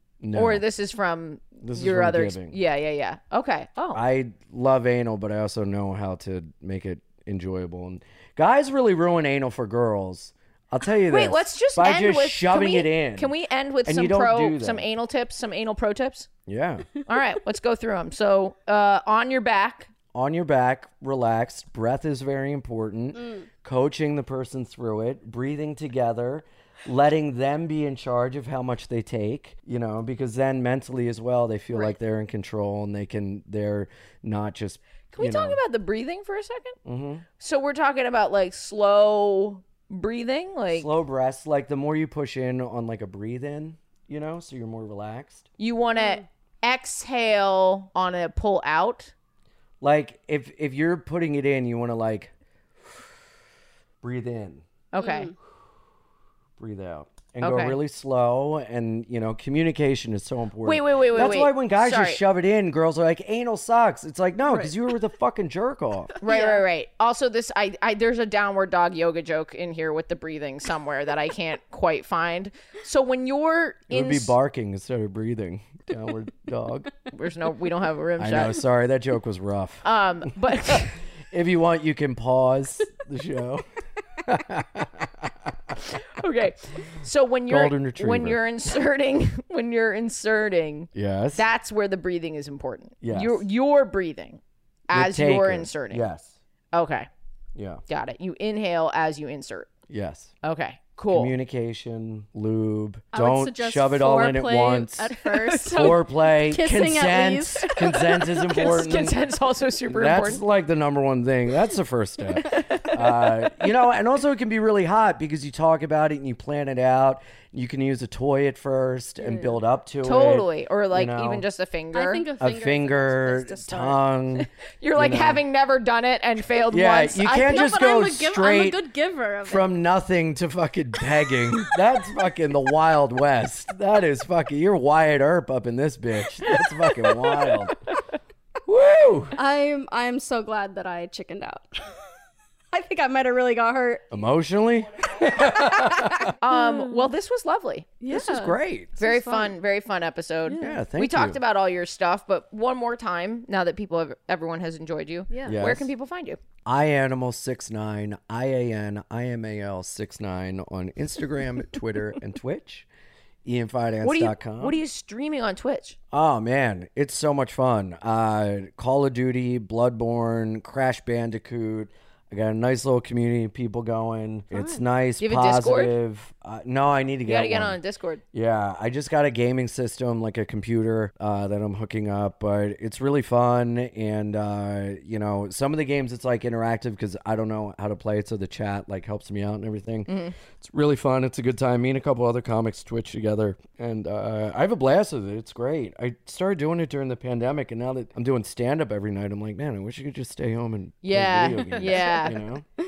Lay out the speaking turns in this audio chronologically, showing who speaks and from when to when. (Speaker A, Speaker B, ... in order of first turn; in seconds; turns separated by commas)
Speaker A: 0.2-0.6, Speaker B: 0.3-4.0, Speaker A: 1.6-2.6, Speaker A: 3.9-13.3, Speaker B: 11.0-16.3, Speaker A: 13.8-14.8, Speaker A: 16.5-16.9, Speaker B: 17.1-19.9, Speaker A: 20.1-35.6, Speaker C: 23.2-23.4, Speaker B: 35.1-36.8, Speaker A: 36.8-37.2, Speaker B: 37.4-40.9, Speaker A: 40.7-45.5, Speaker B: 45.6-49.1, Speaker A: 49.8-52.3, Speaker A: 54.0-54.6, Speaker B: 54.9-55.3, Speaker C: 55.0-55.3, Speaker A: 56.6-66.1, Speaker B: 57.4-57.8, Speaker B: 60.6-62.2, Speaker B: 66.2-74.3, Speaker C: 66.2-66.6, Speaker A: 73.9-76.9, Speaker B: 77.1-78.6, Speaker A: 78.2-83.6, Speaker B: 79.8-81.0, Speaker A: 84.2-85.8, Speaker B: 85.9-96.0, Speaker A: 87.5-88.4, Speaker A: 90.9-91.5, Speaker A: 93.0-93.4, Speaker A: 94.9-96.3, Speaker B: 96.7-97.1, Speaker A: 97.5-97.8, Speaker B: 97.9-99.7, Speaker A: 99.9-100.3, Speaker B: 100.4-101.3, Speaker A: 101.1-109.2, Speaker C: 103.1-108.5, Speaker B: 108.5-110.4, Speaker A: 109.9-121.4, Speaker C: 119.2-119.5, Speaker B: 120.0-122.2, Speaker C: 121.9-124.0, Speaker A: 122.4-125.4, Speaker B: 124.3-127.6, Speaker A: 126.7-128.8, Speaker C: 127.2-129.7, Speaker A: 129.4-137.8, Speaker A: 138.6-139.3, Speaker C: 139.3-142.0, Speaker C: 142.7-144.1, Speaker A: 144.1-146.3, Speaker C: 145.7-147.1, Speaker B: 146.4-147.9, Speaker C: 148.0-149.5, Speaker A: 148.1-148.9, Speaker B: 149.0-156.4, Speaker C: 150.5-150.8, Speaker A: 150.6-151.4, Speaker C: 155.3-155.6, Speaker A: 155.5-155.9, Speaker A: 156.6-162.9, Speaker A: 163.4-164.8, Speaker B: 164.0-166.0, Speaker A: 166.1-177.8, Speaker C: 174.5-174.8, Speaker B: 175.2-176.0, Speaker B: 177.2-178.2, Speaker A: 178.3-202.6, Speaker B: 190.1-190.3, Speaker B: 201.0-202.4, Speaker C: 201.8-202.3